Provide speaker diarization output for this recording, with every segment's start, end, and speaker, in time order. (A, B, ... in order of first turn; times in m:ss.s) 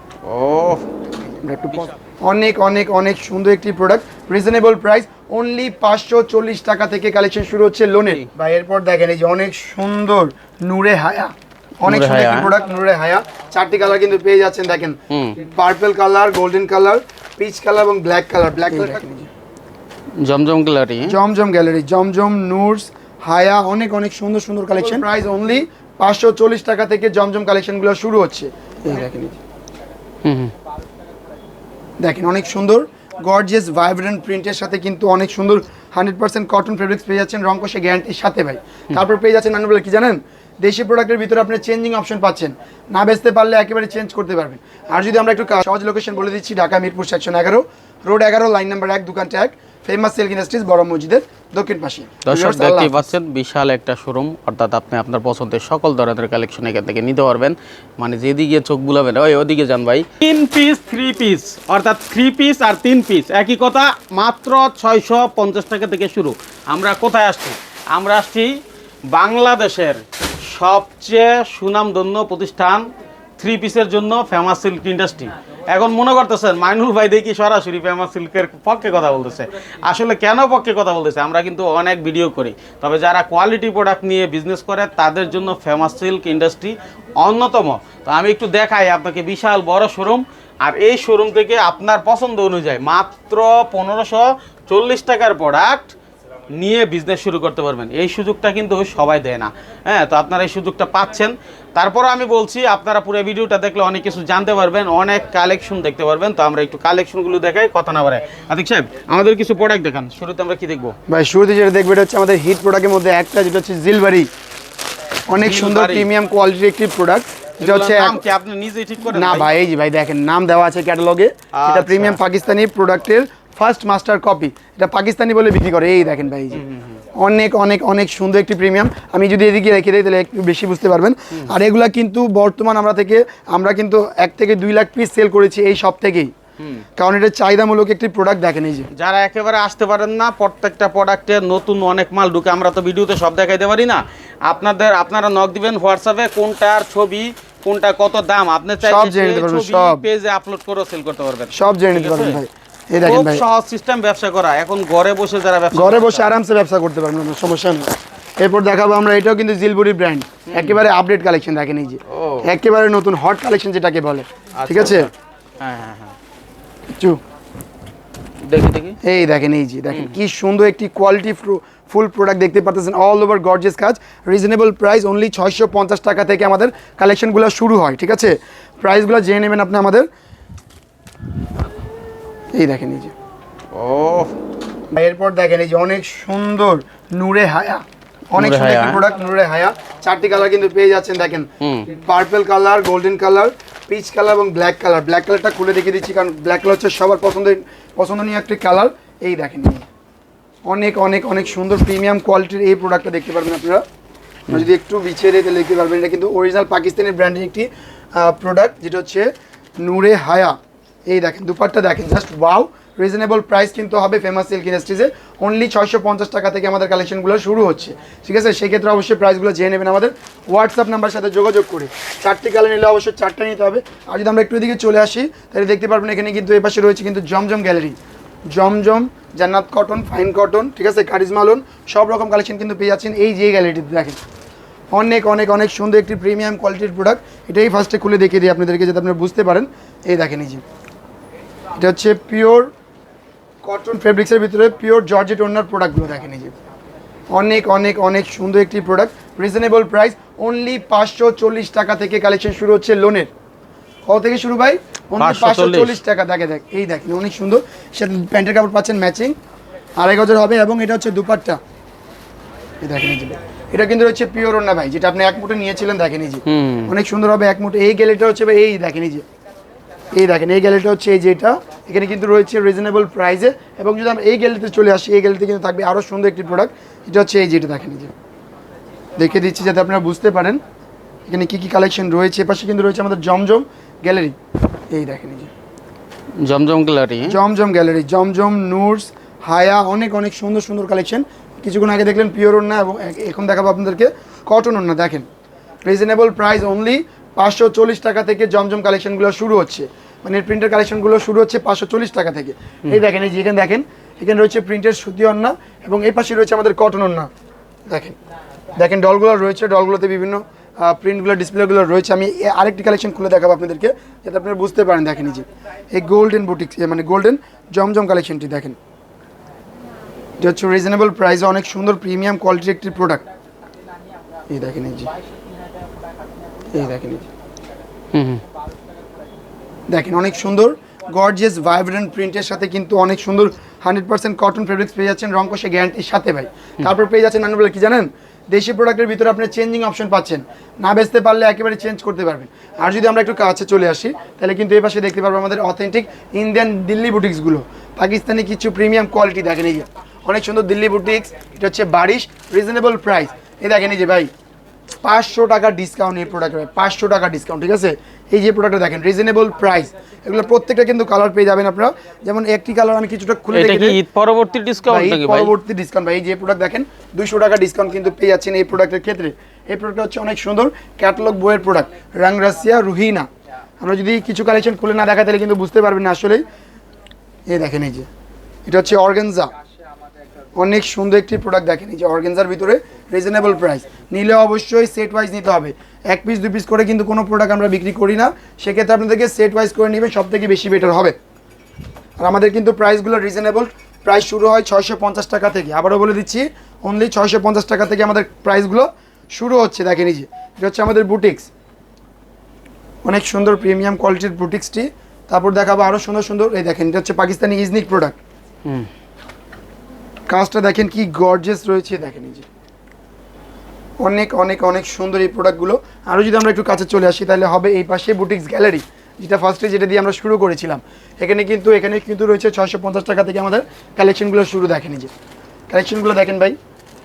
0:00.2-0:00.9 A
0:01.2-0:19.3 B
0:11.8-0:12.5 A
0:15.1-0:15.4 A
0:20.2-0:21.2 A
0:21.0-0:29.4 B
0:30.2-0:30.5 A
0:32.0-0:53.1 B
0:52.2-1:08.6 A
1:09.1-1:35.9 A
1:36.5-1:50.9 A
1:51.1-1:54.3 B
1:55.3-1:58.2 B
1:55.4-1:56.1 A
1:57.6-1:59.5 A
1:59.1-2:06.6 B
2:01.5-2:02.2 A
2:06.5-2:06.9 A
2:07.1-2:16.3 B
2:17.0-2:18.9 B
2:18.9-2:32.4 A
2:28.8-2:30.0 B
2:31.5-2:33.4 B
2:33.0-2:36.3 A
2:35.7-2:45.1 B
2:40.5-2:40.8 A
2:42.1-2:42.4 A
2:44.6-2:46.1 A
2:46.9-2:47.2 B
2:48.4-2:49.0 A
2:49.0-3:00.1 B
3:02.5-3:03.1 B
3:03.7-3:04.3 A
3:04.9-3:19.9 B
3:08.4-3:09.0 A
3:11.6-3:11.9 A
3:20.6-3:23.8 B
3:24.5-3:30.6 B
3:31.1-3:48.0 B
3:48.5-3:54.2 B
3:54.9-4:00.6 B
4:01.8-4:02.7 B
4:03.6-4:06.5 B
4:07.3-4:13.3 B
4:14.1-4:19.4 B
4:15.2-4:16.0 A
4:20.0-4:21.6 B
4:22.8-4:29.2 B
4:26.4-4:26.9 A
4:30.1-4:38.1 B
4:39.2-4:40.6 B
4:41.3-4:44.4 B
4:44.9-4:45.5 B
4:46.4-4:47.4 A
4:47.3-4:55.2 B
4:55.8-5:07.3 B
5:07.9-5:08.2 B
5:08.8-5:18.8 B
5:20.4-5:23.2 B
5:24.5-5:25.1 B
5:26.6-5:27.3 B
5:28.1-5:28.4 A
5:29.9-5:54.3 B
5:55.0-6:04.0 B
6:03.5-6:05.5 A
6:04.9-6:13.3 B
6:13.8-6:16.4 B
6:17.5-6:18.1 B
6:18.6-6:19.5 B
6:20.6-6:31.2 B
6:32.2-6:41.5 B
6:43.0-6:48.2 B
6:50.3-6:52.4 B
6:54.0-7:05.1 B
7:05.7-7:06.6 B